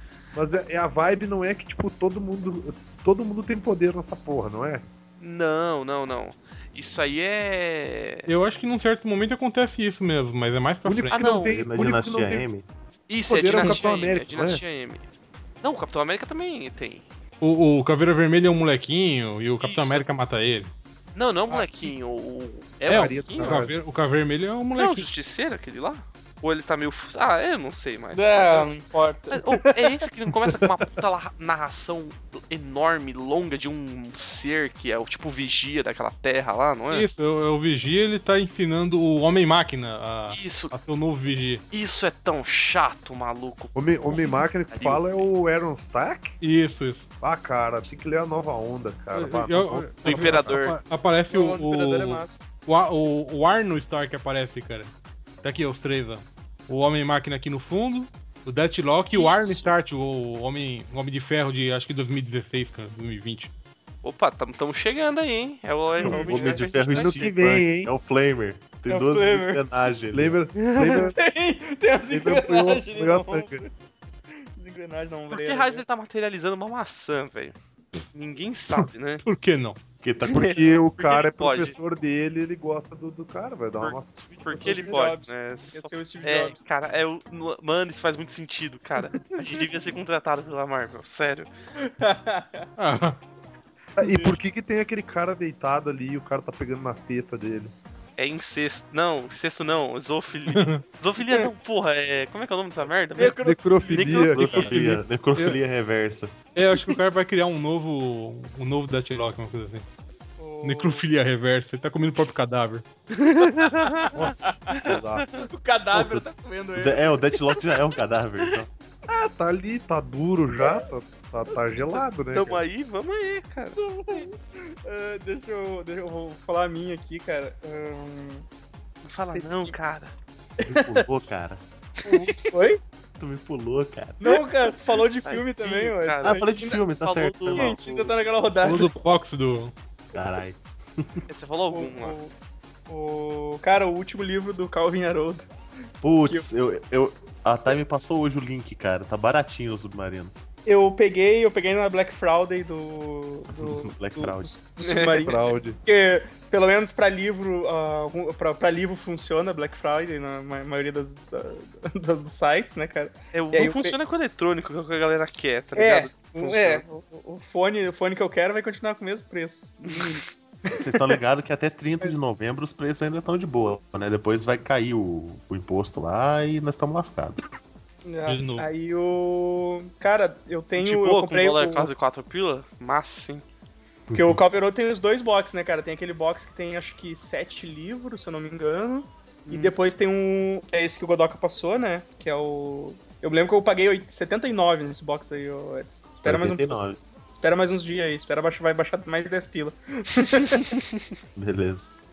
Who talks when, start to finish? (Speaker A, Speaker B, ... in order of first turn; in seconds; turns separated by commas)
Speaker A: 0.3-4.8, Speaker B: 5.2-8.3, Speaker C: 8.2-11.2, Speaker A: 10.8-12.5, Speaker B: 11.1-11.6, Speaker D: 11.5-12.7, Speaker B: 13.1-15.1, Speaker A: 13.3-14.6, Speaker E: 13.5-13.8, Speaker B: 15.6-17.0, Speaker C: 17.4-20.7, Speaker B: 19.6-20.1, Speaker B: 21.1-23.6, Speaker A: 21.5-21.9, Speaker A: 22.9-23.8, Speaker C: 22.9-25.1, Speaker B: 24.8-28.8, Speaker E: 28.1-29.9, Speaker B: 29.3-37.1, Speaker C: 36.9-41.6, Speaker B: 40.3-40.7, Speaker B: 41.7-45.3, Speaker A: 43.7-46.4, Speaker C: 46.4-47.1, Speaker A: 47.2-50.6, Speaker C: 49.1-63.5, Speaker B: 50.0-50.8, Speaker E: 51.3-52.4, Speaker E: 59.1-59.6, Speaker B: 64.0-67.3, Speaker E: 66.0-66.7, Speaker D: 66.0-70.4, Speaker A: 66.9-67.9, Speaker E: 68.9-69.6, Speaker A: 70.1-71.2, Speaker E: 70.9-73.7, Speaker A: 72.1-73.6, Speaker E: 74.4-75.8, Speaker B: 75.3-77.5, Speaker B: 78.1-79.2, Speaker C: 78.8-79.8, Speaker D: 80.0-80.6, Speaker A: 80.3-84.9, Speaker B: 80.9-81.8, Speaker B: 83.8-91.5, Speaker E: 84.6-86.6, Speaker E: 89.1-89.6, Speaker E: 91.8-92.7, Speaker C: 92.8-93.2, Speaker A: 94.0-97.7, Speaker E: 94.0-94.3, Speaker B: 98.2-104.8, Speaker C: 100.5-100.8, Speaker E: 103.2-104.2, Speaker A: 103.2-104.8, Speaker D: 104.3-106.4, Speaker C: 106.5-109.8, Speaker E: 110.4-111.0, Speaker C: 110.6-112.8, Speaker B: 113.1-114.2, Speaker E: 113.8-114.7, Speaker A: 114.1-115.2, Speaker B: 114.7-115.5, Speaker E: 115.5-117.5, Speaker D: 115.9-116.2, Speaker D: 116.8-118.7, Speaker A: 119.1-122.6, Speaker B: 121.9-124.3, Speaker E: 123.8-128.4, Speaker B: 129.0-130.1, Speaker E: 129.3-129.7, Speaker E: 130.6-131.0, Speaker D: 130.6-131.6, Speaker B: 132.0-132.5, Speaker E: 132.0-132.8, Speaker D: 133.2-134.2, Speaker E: 134.2-136.8, Speaker B: 135.2-138.1, Speaker D: 136.2-137.8, Speaker E: 137.5-138.9, Speaker C: 138.6-139.7, Speaker D: 140.1-141.2, Speaker B: 141.3-142.2, Speaker E: 141.7-142.3, Speaker E: 142.9-145.5, Speaker D: 146.0-150.3, Speaker E: 150.7-163.9, Speaker D: 153.5-154.6, Speaker B: 154.8-155.2, Speaker A: 154.9-155.8, Speaker B: 163.3-166.8, Speaker E: 165.8-170.8, Speaker B: 169.9-170.2, Speaker D: 170.7-177.4, Speaker E: 178.1-181.9, Speaker C: 178.3-178.7, Speaker B: 180.8-183.4, Speaker D: 184.1-184.4, Speaker E: 184.1-196.8, Speaker B: 189.5-189.7, Speaker D: 196.2-197.0, Speaker E: 197.4-200.8, Speaker D: 201.3-201.9